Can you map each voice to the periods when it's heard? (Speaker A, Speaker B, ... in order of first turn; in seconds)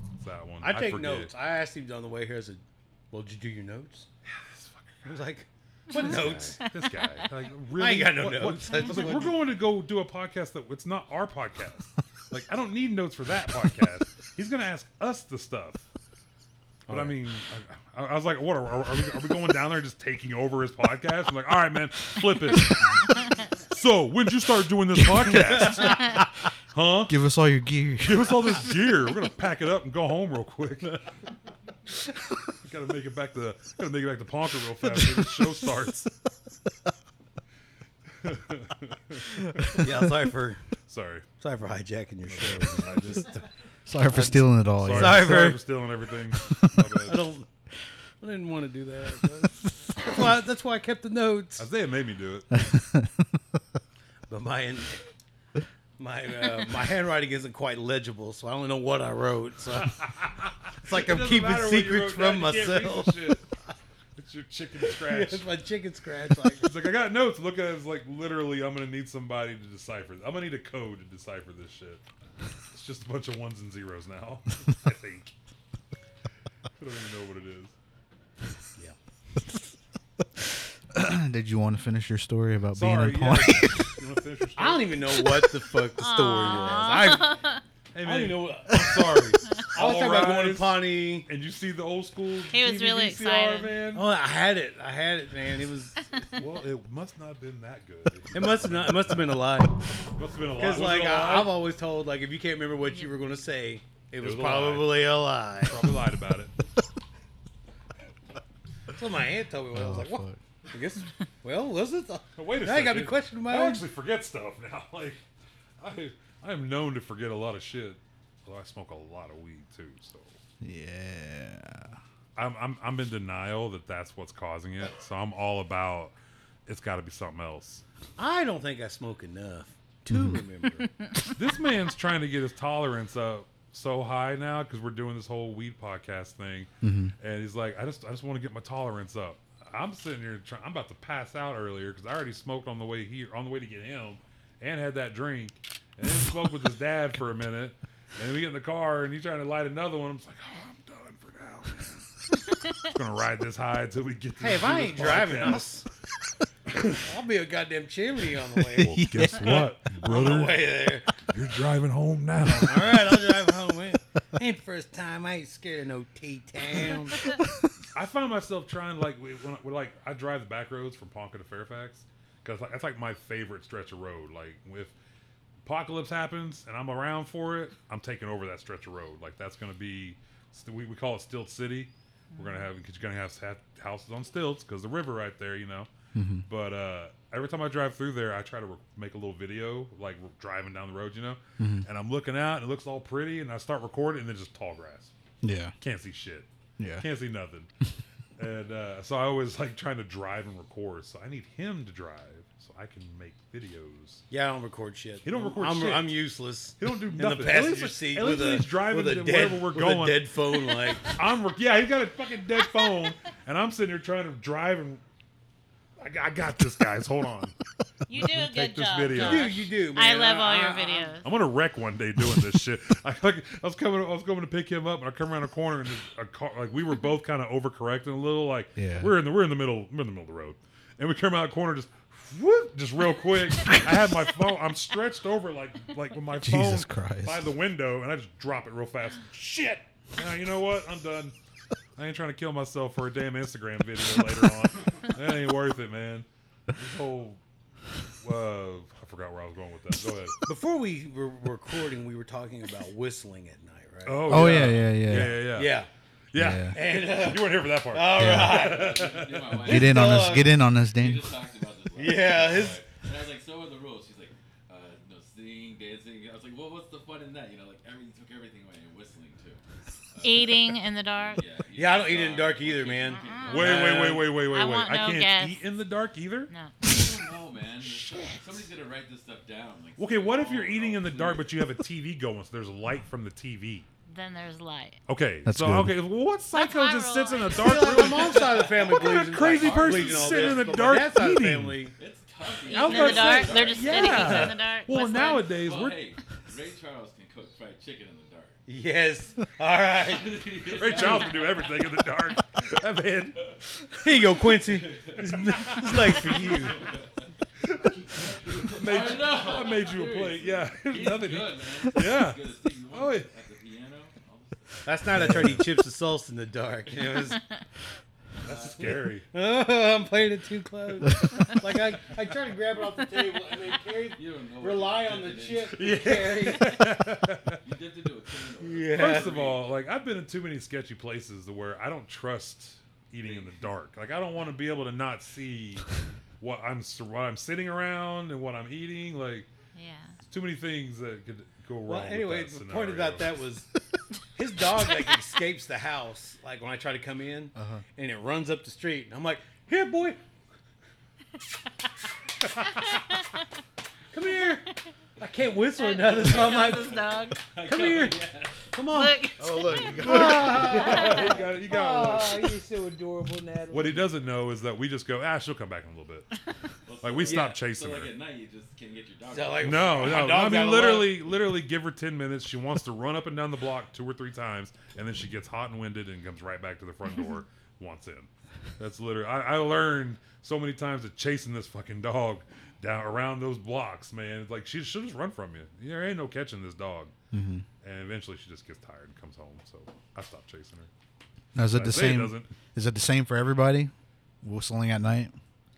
Speaker A: 0.2-1.3, 4.2-5.1, 5.9-15.8, 16.9-27.2, 28.0-31.0, 32.6-36.1, 38.2-39.8, 40.8-41.3, 42.2-43.4, 44.8-47.2, 51.6-52.7, 59.8-63.4, 64.2-65.4, 66.4-72.0, 72.7-75.3, 76.8-77.7, 82.7-85.2, 87.9-94.1, 96.3-99.3, 100.2-101.5, 104.2-106.5, 112.3-115.2, 115.8-120.3, 122.3-126.1, 126.7-127.8, 131.3-136.7, 137.2-155.7, 158.7-163.3, 167.9-174.9, 175.6-185.9, 186.5-195.1, 195.8-196.5, 197.0-197.7, 198.4-204.2, 205.2-206.2, 206.8-210.3, 211.0-215.0, 216.0-217.5, 218.1-219.7, 221.2-241.3, 242.0-247.4, 248.2-250.4, 254.0-255.8, 256.3-259.5, 273.4-276.5, 277.9-278.4, 280.0-283.9, 285.1-291.8, 292.7-296.0, 300.7-303.9, 305.2-306.4, 307.6-313.3, 318.4-319.3, 325.8-327.6, 328.9-335.9, 336.4-339.5, 340.2-343.3, 359.6-362.5, 363.7-366.3, 367.0-368.1, 369.6-387.1, 387.8-390.9, 391.7-392.5
Speaker B: 0.6-4.1, 5.0-6.7, 7.7-9.5, 16.9-17.2, 39.7-40.6, 41.4-43.4, 44.1-45.8, 47.0-47.5, 48.2-51.7, 54.3-55.0, 56.0-60.2, 60.8-63.4, 64.9-66.8, 84.6-87.4, 88.0-91.3, 93.9-96.1, 98.3-99.8, 100.5-105.9, 108.9-113.8, 128.2-130.9, 154.4-155.8, 157.0-159.3, 160.0-161.2, 162.6-167.3, 204.3-211.2, 219.1-221.2, 250.4-254.8, 255.5-255.9, 256.7-260.5, 261.9-262.8, 271.7-274.4, 287.5-291.9, 292.8-294.6, 298.7-300.5, 304.0-306.9, 314.9-317.4, 318.5-326.8, 328.6-329.4, 341.8-343.7, 344.3-350.2, 354.1-354.7, 355.2-364.2, 369.3-371.3
Speaker C: 6.7-7.1, 86.0-87.6, 92.5-93.8, 218.1-221.3, 270.2-271.4, 273.1-273.8, 274.3-275.6, 276.5-276.8, 284.1-285.0, 286.5-288.4, 292.7-295.5, 339.7-340.2, 352.7-353.0, 355.8-357.4, 358.9-361.3
Speaker D: 27.1-28.6, 43.9-45.4, 52.7-53.1, 80.9-83.9, 109.7-110.4, 120.6-122.0, 130.1-130.4, 136.8-137.1, 158.9-159.7, 186.1-186.5, 191.6-191.9, 195.4-195.7, 196.8-197.1, 228.8-229.1, 236.4-237.4, 254.3-255.5, 256.4-256.8, 258.1-258.7, 259.6-261.3, 285.4-286.0, 315.1-315.7, 347.5-347.8, 387.3-387.6, 391.5-393.9, 394.4-395.3
Speaker E: 258.7-274.1, 276.8-281.7, 288.1-290.9, 291.9-294.4, 295.4-298.6, 300.1-301.9, 304.6-307.3, 307.9-314.9, 323.9-326.1, 327.5-329.7, 333.2-333.6, 355.9-358.7, 366.9-370.3